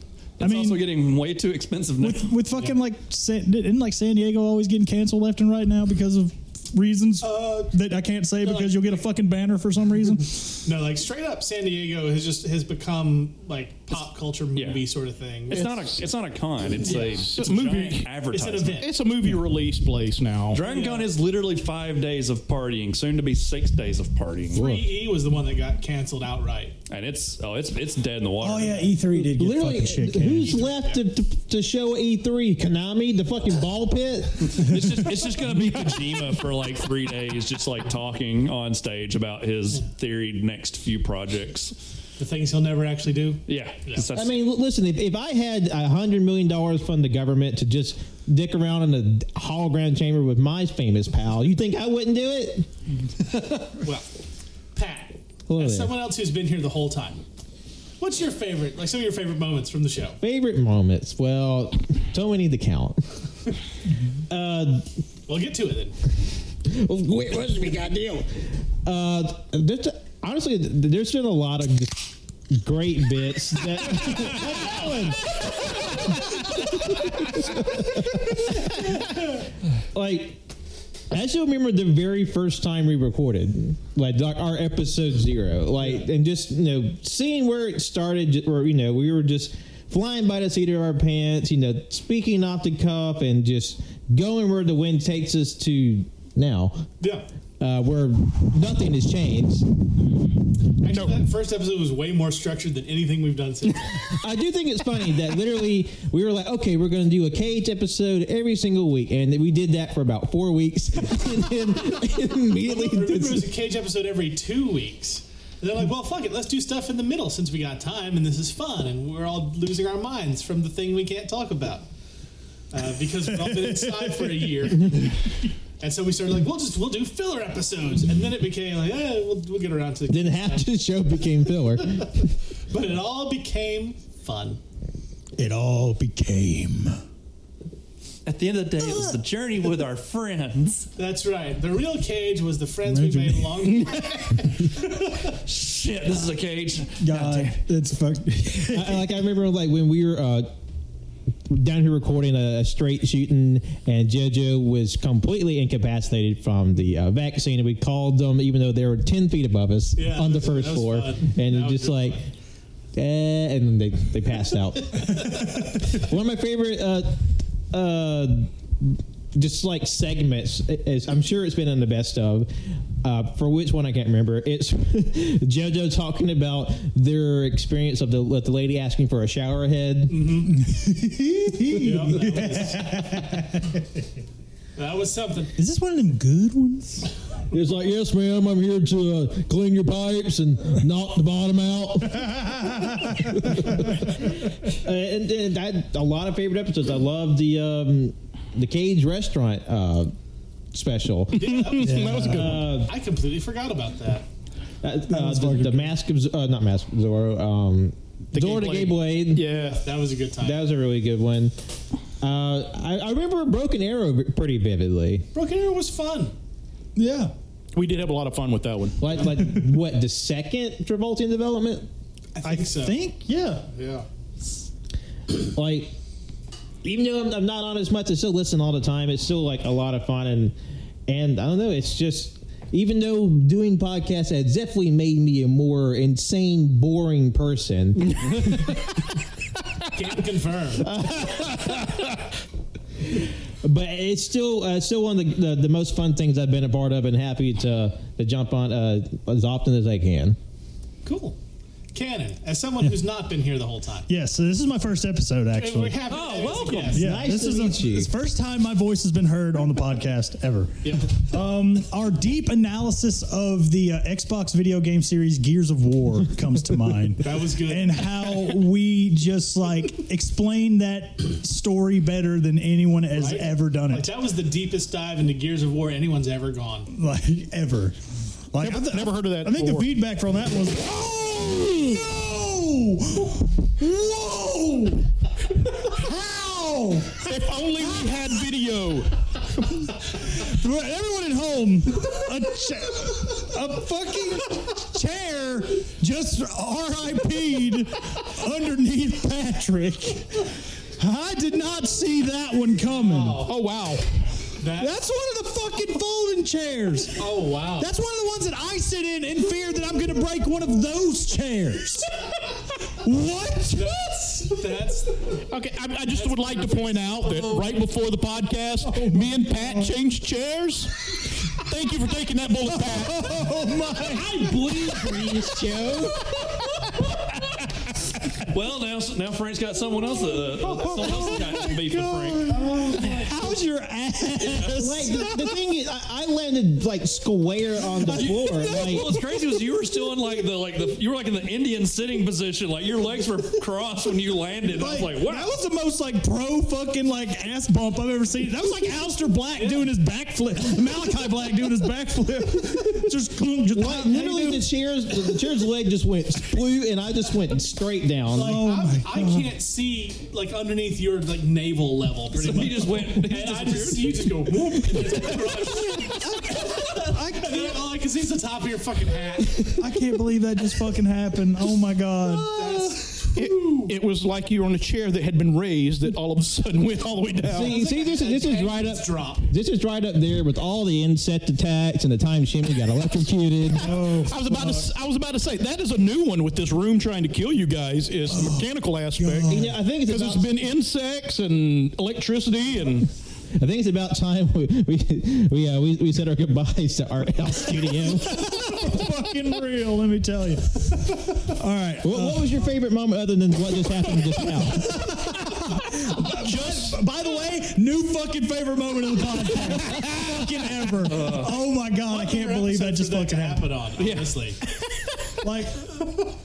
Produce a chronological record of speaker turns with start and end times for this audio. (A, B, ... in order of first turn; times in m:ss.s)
0:00.4-0:02.3 A
0:00.4-0:00.9 B
0:02.0-0:10.6 B
0:07.2-0:07.8 C
0:08.4-0:09.1 C
0:10.6-0:15.7 C
0:14.6-0:14.8 A
0:15.5-0:18.8 A
0:15.5-0:16.0 D
0:16.8-0:18.1 D
0:16.8-0:17.3 C
0:18.3-0:18.9 C
0:18.8-0:20.6 D
0:20.5-0:24.6 A
0:20.6-0:21.1 C
0:24.5-0:26.8 C
0:24.6-0:24.9 E
0:26.9-0:28.9 A
0:28.4-0:30.6 B
0:29.2-0:34.8 E
0:30.4-0:31.0 C
0:34.5-0:41.8 A
0:42.2-0:44.1 C
0:43.5-0:44.4 A
0:44.1-0:52.7 E
0:53.3-0:53.7 A
0:53.8-0:54.1 C
0:54.7-0:57.2 C
0:55.5-0:55.9 E
0:58.0-1:00.2 C
1:00.2-1:03.0 E
1:04.3-1:04.9 E
1:05.3-1:06.0 C
1:06.6-1:19.4 E
1:19.9-1:20.4 E
1:21.1-1:36.9 E
1:37.0-1:37.3 C
1:37.6-1:39.7 E
1:40.8-1:44.2 C
1:40.9-1:41.2 D
1:44.1-1:53.5 E
1:52.6-2:01.8 C
2:02.7-2:05.2 C
2:03.3-2:04.7 B
2:05.8-2:10.8 C
2:10.1-2:12.3 E
2:12.7-2:14.6 C
2:15.4-2:17.0 B
2:18.2-2:20.9 A
2:18.8-2:19.2 B
2:21.0-2:25.3 C
2:22.9-2:23.6 B
2:23.7-2:24.1 D
2:25.3-2:27.6 A
2:27.0-2:29.2 B
2:28.6-2:30.5 E
2:31.5-2:42.2 E
2:40.0-2:42.2 C
2:42.9-3:00.3 E
3:00.1-3:00.6 C
3:00.5-3:03.9 B
3:01.8-3:03.3 C
3:04.8-3:05.5 C
3:05.6-3:07.1 B
3:07.5-3:20.1 E
3:12.6-3:13.9 B
3:20.7-3:21.7 E
3:21.3-3:22.7 D
3:21.4-3:24.3 C
3:21.8-3:22.5 B
3:22.2-3:22.9 E
3:24.8-3:29.5 E
3:25.1-3:25.9 B
3:28.3-3:29.8 D
3:29.5-3:30.6 C
3:30.4-3:31.5 E
3:32.2-3:35.3 E
3:35.3-3:36.3 C
3:37.0-3:37.3 B
3:37.7-3:39.2 D
3:39.0-3:41.9 E
3:42.4-3:43.0 C
3:42.4-3:43.7 B
3:43.7-3:44.1 C
3:45.3-3:45.9 E
3:46.8-3:50.6 E
3:51.1-3:58.7 E
3:59.9-4:01.0 C
4:00.8-4:02.1 E
4:03.1-4:10.4 E
4:11.0-4:11.4 C
4:11.9-4:14.1 C
4:14.1-4:16.0 B
4:15.5-4:17.1 C
4:16.1-4:17.0 A
4:16.9-4:34.1 B
4:17.0-4:18.1 E
4:20.8-4:21.2 C
4:27.2-4:28.5 C
4:33.1-4:36.9 C
4:36.9-4:38.0 B
4:38.5-4:45.1 B
4:38.6-4:40.0 D
4:45.6-4:48.2 B
4:47.2-4:49.1 D
4:49.6-5:03.5 B
5:02.8-5:03.5 C
5:03.4-5:04.1 D
5:04.6-5:05.0 C
5:04.8-5:12.2 B
5:07.2-5:07.9 C
5:12.9-5:14.6 B
5:13.7-5:15.4 C
5:15.5-5:23.3 D
5:16.1-5:16.9 C
5:18.9-5:20.0 B
5:22.7-5:26.1 B
5:24.4-5:26.2 E
5:28.4-5:32.5 A
5:30.6-5:35.6 B
5:32.5-5:33.3 C
5:34.5-5:34.7 A
5:34.7-5:39.1 E
5:38.0-5:39.2 B
5:38.1-5:45.5 A
5:44.7-5:54.7 B
5:49.6-5:49.9 C
5:53.7-5:58.6 E
5:58.3-6:09.8 C
5:58.4-5:59.5 B
6:02.4-6:04.3 A
6:06.1-6:07.8 B
6:09.8-6:12.5 B
6:12.5-6:13.9 C
6:13.4-6:17.8 D
6:17.4-6:24.0 E
6:17.6-6:19.5 C
6:23.8-6:24.9 B
6:24.0-6:33.1 D
6:28.3-6:29.8 B
6:29.5-6:30.5 E
6:33.6-6:38.7 E
6:38.0-6:42.7 B
6:42.0-6:45.0 E
6:44.6-6:53.8 B
6:46.2-6:47.0 D
6:51.1-6:51.5 A
6:52.1-6:54.6 C
6:54.0-6:54.3 A
6:55.4-6:56.3 B